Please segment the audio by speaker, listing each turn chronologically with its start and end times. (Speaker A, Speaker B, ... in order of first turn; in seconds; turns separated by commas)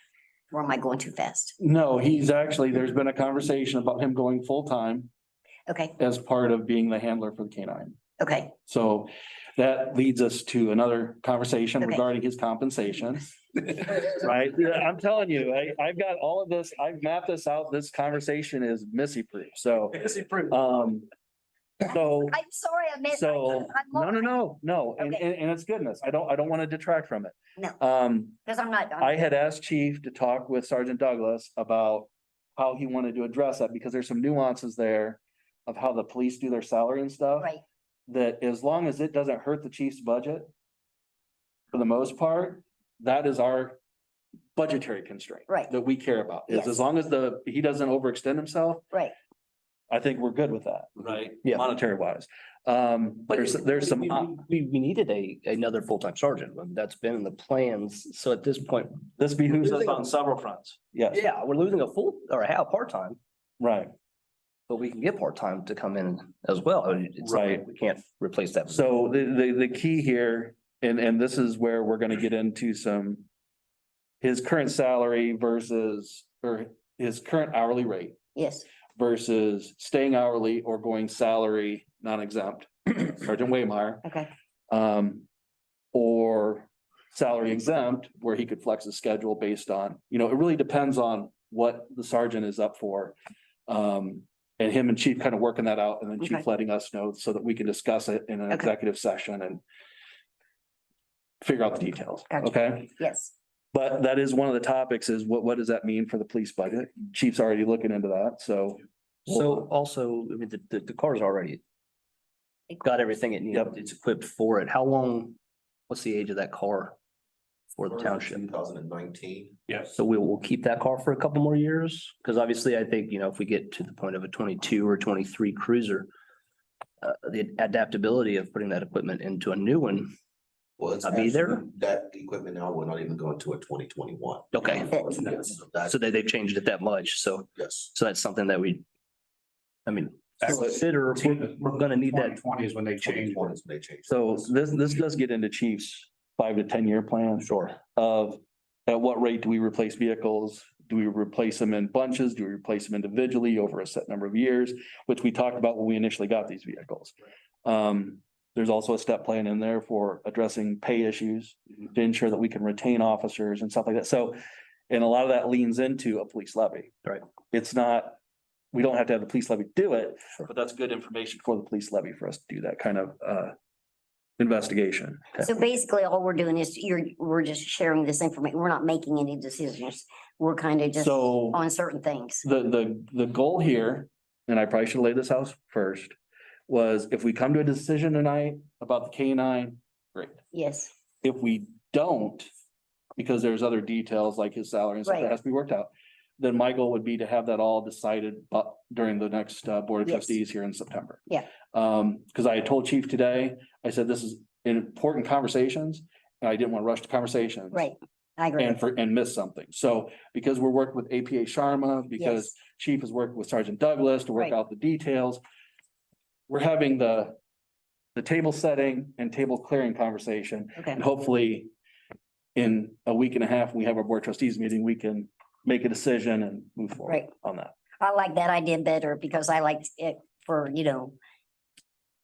Speaker A: 0.5-1.5, Speaker B: 1.6-5.1, Speaker A: 5.7-5.9, Speaker B: 6.0-8.0, Speaker A: 8.2-8.5, Speaker B: 8.7-21.1, Speaker B: 21.8-22.4, Speaker A: 22.0-24.3, Speaker B: 23.1-28.4, Speaker A: 28.4-29.2, Speaker B: 29.0-37.5, Speaker B: 38.1-40.5, Speaker B: 41.7-43.8, Speaker B: 44.5-48.8, Speaker A: 46.5-46.8, Speaker B: 49.9-54.4, Speaker C: 53.3-59.1, Speaker B: 59.2-61.2, Speaker C: 59.6-59.9, Speaker C: 61.1-63.2, Speaker B: 63.6-63.9, Speaker C: 64.7-69.0, Speaker B: 67.2-67.6, Speaker B: 68.7-73.2, Speaker B: 74.2-78.2, Speaker A: 78.3-78.7, Speaker B: 79.0-84.0, Speaker A: 84.0-84.3, Speaker B: 84.7-85.2, Speaker B: 85.9-93.2, Speaker B: 93.7-99.6, Speaker B: 101.4-102.9, Speaker A: 102.3-103.3, Speaker B: 103.7-109.6, Speaker C: 109.2-111.6, Speaker C: 112.8-115.3, Speaker C: 115.9-117.0, Speaker C: 117.7-118.4, Speaker D: 117.9-119.6, Speaker C: 119.8-126.1, Speaker C: 127.0-130.1, Speaker D: 130.8-135.9, Speaker C: 131.0-131.6, Speaker C: 134.5-135.0, Speaker C: 135.8-138.8, Speaker D: 137.6-137.9, Speaker C: 139.8-142.4, Speaker E: 140.4-143.4, Speaker D: 143.3-144.4, Speaker B: 144.1-166.9, Speaker C: 147.4-147.8, Speaker B: 167.5-168.2, Speaker B: 168.7-173.5, Speaker B: 174.4-175.2, Speaker A: 175.4-182.4, Speaker B: 181.0-181.6, Speaker B: 182.4-186.2, Speaker B: 186.7-190.4, Speaker A: 190.5-190.9, Speaker B: 191.2-192.5, Speaker B: 193.2-207.9, Speaker A: 195.1-195.4, Speaker A: 200.0-200.3, Speaker A: 207.7-208.8, Speaker B: 208.6-215.4, Speaker A: 212.2-212.5, Speaker B: 216.5-217.4, Speaker B: 218.1-221.7, Speaker B: 222.5-227.7, Speaker A: 228.0-231.2